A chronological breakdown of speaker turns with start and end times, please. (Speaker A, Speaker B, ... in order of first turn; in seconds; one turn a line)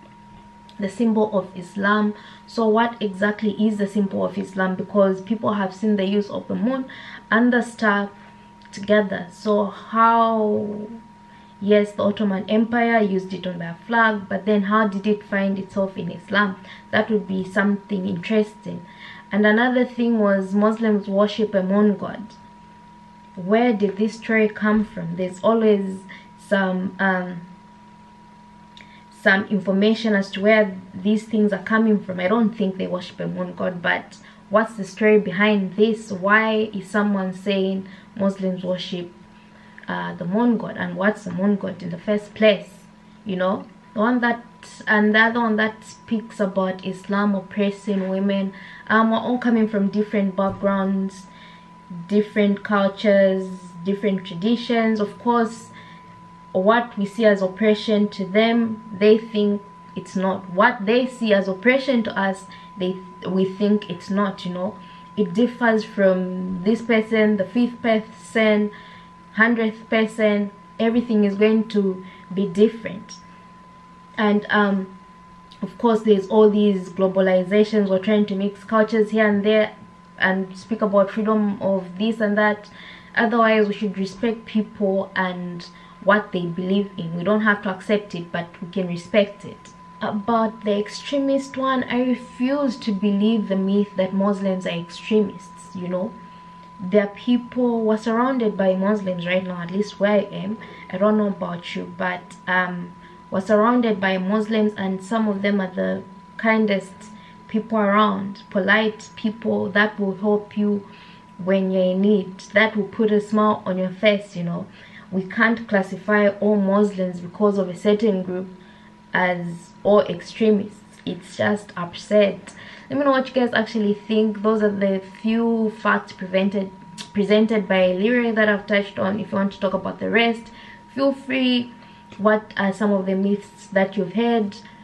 Speaker A: 0.8-8.1
Speaker A: 8.7-10.9
Speaker A: 11.6-22.3
Speaker A: 23.4-27.4
Speaker A: 29.1-39.1
Speaker A: 39.9-51.3
Speaker A: 52.0-55.7
Speaker A: 56.5-68.7
Speaker A: 69.3-73.2
Speaker A: 74.2-74.9
Speaker A: 75.6-96.1
Speaker A: 96.8-110.9
Speaker A: 111.4-118.5
Speaker A: 119.1-134.6